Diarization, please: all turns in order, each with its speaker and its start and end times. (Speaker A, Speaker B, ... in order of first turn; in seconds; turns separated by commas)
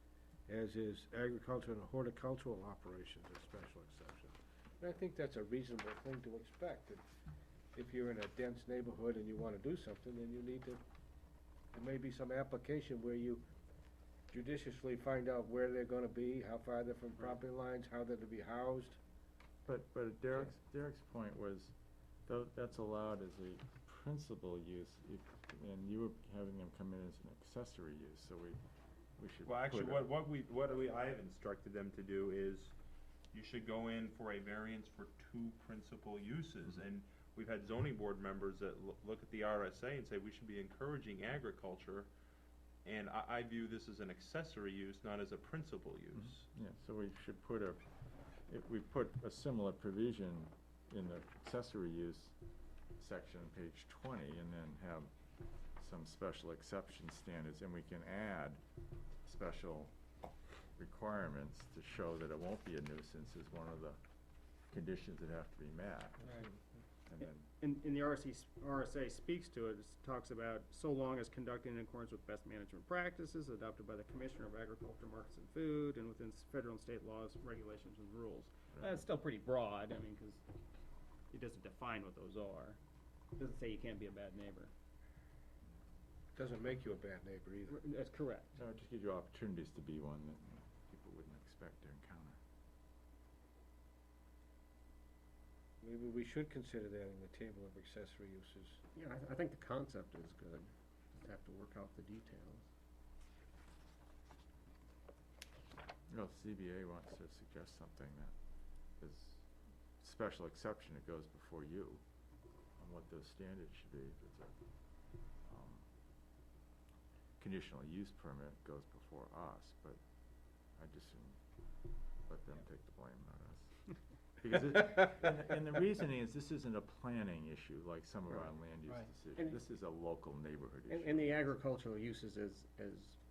Speaker A: 0.5-7.0, Speaker A: 7.7-10.8, Speaker A: 11.7-13.4, Speaker A: 14.3-19.0, Speaker B: 19.6-21.7, Speaker B: 22.3-28.6, Speaker B: 29.2-30.1, Speaker C: 29.4-32.7, Speaker C: 33.3-42.1, Speaker C: 42.8-46.4, Speaker B: 46.1-47.8, Speaker B: 48.5-52.3, Speaker B: 53.0-55.1, Speaker B: 55.8-58.6, Speaker B: 59.2-59.9, Speaker B: 60.8-64.0, Speaker B: 64.7-66.3, Speaker B: 67.1-67.5, Speaker D: 67.6-80.4, Speaker B: 78.7-79.0, Speaker D: 81.3-82.8, Speaker D: 83.4-84.7, Speaker A: 86.3-87.8, Speaker D: 87.7-88.5, Speaker B: 88.5-92.4, Speaker A: 95.8-98.8, Speaker E: 98.9-102.7, Speaker B: 106.1-108.3, Speaker B: 109.0-109.4, Speaker B: 110.0-112.0, Speaker B: 112.8-114.5, Speaker B: 115.4-115.9, Speaker B: 117.4-120.0, Speaker B: 120.8-121.4, Speaker B: 122.2-123.7, Speaker B: 124.4-131.5, Speaker E: 130.9-133.2